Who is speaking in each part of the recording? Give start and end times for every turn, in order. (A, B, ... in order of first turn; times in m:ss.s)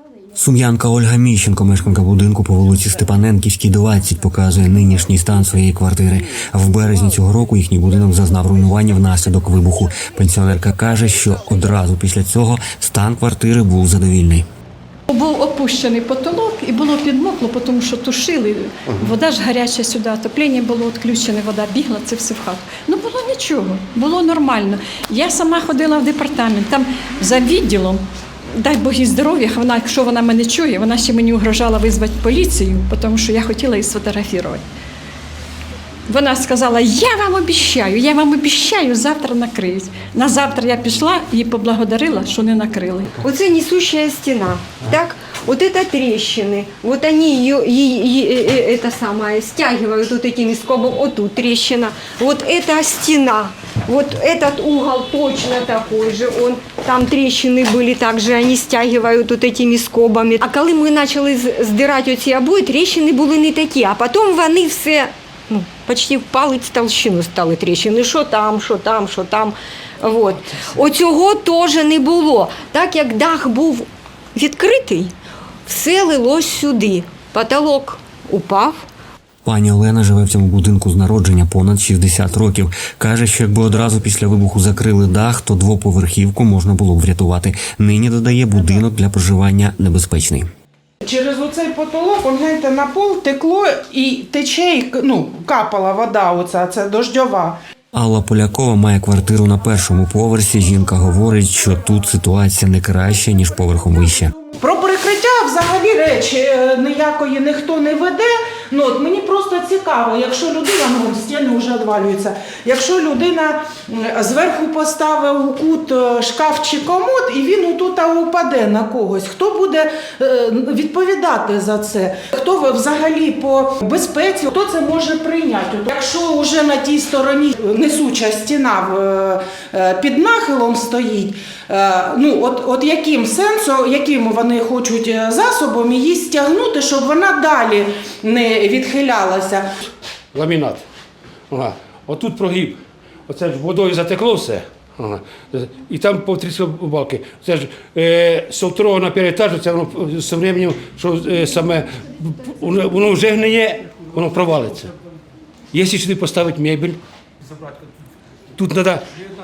0:00.3-0:14.4 A
0:15.1-0:28.0 B
0:28.6-0:34.6 B
0:36.1-0:43.2 B
0:43.2-1:15.1 C
1:15.7-1:18.8 C
1:19.4-1:30.5 A
1:31.0-1:37.6 D
1:37.9-1:44.3 A
1:44.4-2:19.6 D
2:20.3-2:20.8 E
2:21.5-2:34.9 E
2:35.7-2:37.0 E
2:38.6-2:39.0 E